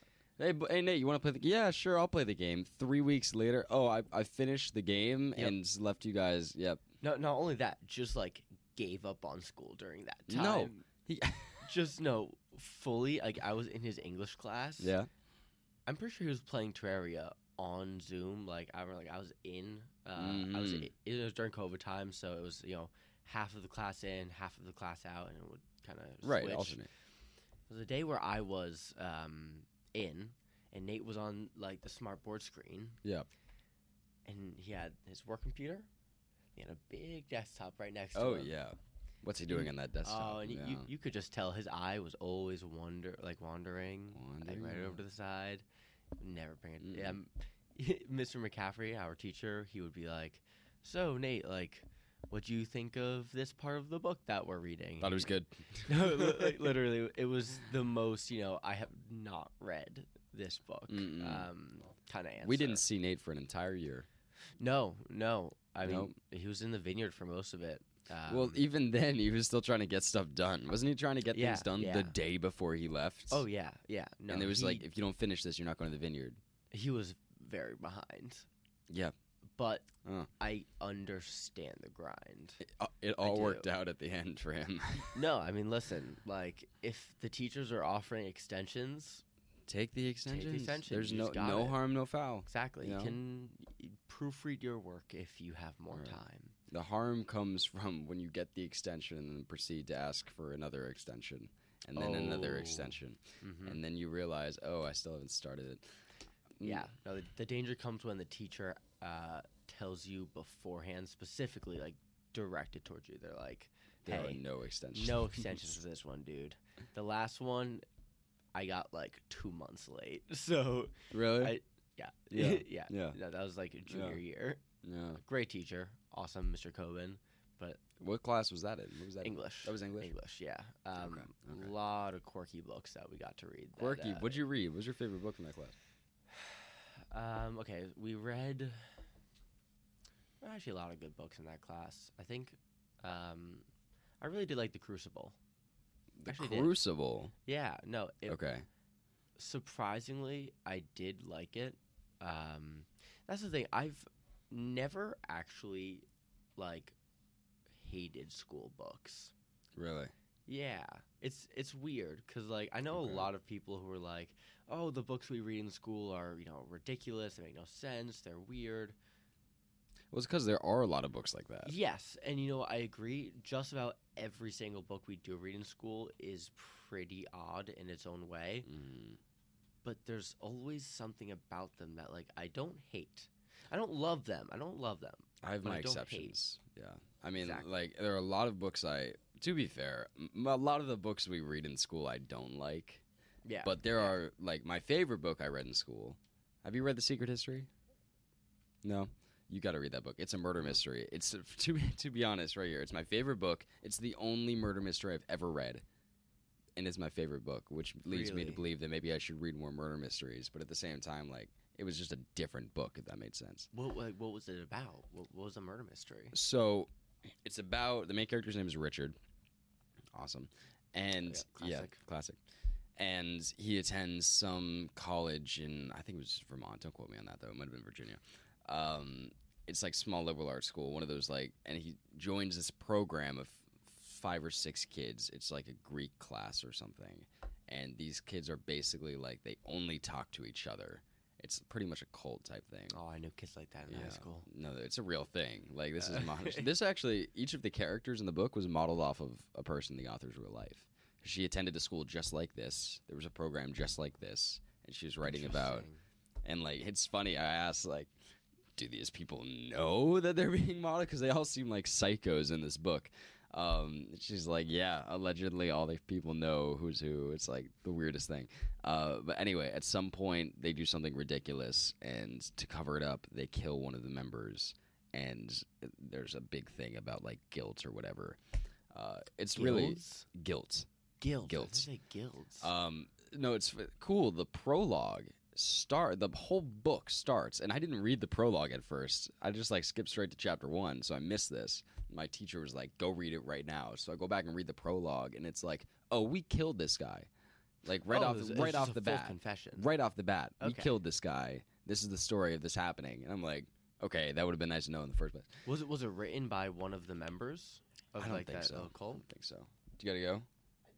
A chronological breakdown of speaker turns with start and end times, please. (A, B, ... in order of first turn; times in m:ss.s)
0:00.4-0:06.8 A
0:07.0-0:10.8 B
0:10.3-0:11.7 A
0:11.6-0:15.0 B
0:14.8-0:15.1 A
0:15.9-0:26.8 B
0:20.2-0:20.9 A
0:26.2-0:26.9 A
0:27.7-0:33.0 B
0:34.2-0:35.9 B
0:36.6-0:38.5 B
0:38.1-0:40.9 A
0:39.5-0:45.6 B
0:44.2-0:45.0 A
0:46.2-1:02.8 B
0:46.8-0:47.2 A
0:55.0-0:56.7 A
1:00.9-1:01.5 A
1:02.4-1:04.1 A
1:04.6-1:08.6 B
1:05.8-1:06.1 A
1:08.3-1:13.4 A
1:11.3-1:12.2 B
1:13.3-1:14.8 B
1:14.3-1:16.4 A
1:16.7-1:18.5 B
1:19.6-1:22.6 B
1:20.0-1:20.3 A
1:22.6-1:25.2 A
1:23.2-1:23.7 B
1:25.0-1:29.2 B
1:29.7-1:33.2 A
1:30.3-1:31.8 B
1:32.5-1:36.6 B
1:36.7-1:46.0 A
1:41.9-1:43.8 B
1:46.6-1:46.8 A
1:46.6-1:54.4 B
1:54.0-1:55.7 A
1:54.9-1:57.8 B
1:58.6-2:04.6 B
2:01.1-2:01.6 A
2:02.3-2:03.2 A
2:03.9-2:04.2 A
2:04.8-2:05.2 A
2:05.2-2:07.8 B
2:08.0-2:10.1 A
2:09.2-2:14.4 B
2:11.0-2:11.7 A
2:13.8-2:15.8 A
2:16.3-2:19.0 B
2:20.4-2:23.7 B
2:24.2-2:25.4 B
2:26.2-2:27.3 A
2:26.3-2:26.8 B
2:27.5-2:28.4 B
2:28.3-2:28.7 A
2:29.4-2:37.0 B
2:37.7-2:39.3 B
2:39.8-2:40.1 A
2:40.5-2:49.0 B
2:42.9-2:43.3 A
2:50.1-2:51.7 A
2:51.6-2:58.7 B
2:58.7-2:59.2 A
2:59.8-3:06.4 B
3:05.4-3:13.0 A
3:07.4-3:07.7 B
3:13.4-3:14.1 B
3:13.6-3:17.7 A
3:18.8-3:25.8 A
3:26.8-3:33.7 A
3:28.1-3:28.6 B
3:33.7-3:36.4 B
3:36.3-3:36.9 A
3:37.4-3:39.2 A
3:40.1-3:42.4 A
3:41.2-3:42.0 B
3:43.0-4:03.0 A
4:02.9-4:04.5 B
4:03.9-4:15.9 A
4:06.0-4:06.7 B
4:15.2-4:16.0 B
4:16.4-4:18.1 A
4:18.8-4:40.9 A
4:39.6-4:40.3 B
4:41.2-4:42.7 B
4:41.5-4:41.9 A
4:42.6-4:57.3 A
4:57.8-5:05.6 A
4:58.1-4:59.9 B
5:00.6-5:01.0 B
5:05.7-5:09.2 B
5:08.2-5:10.5 A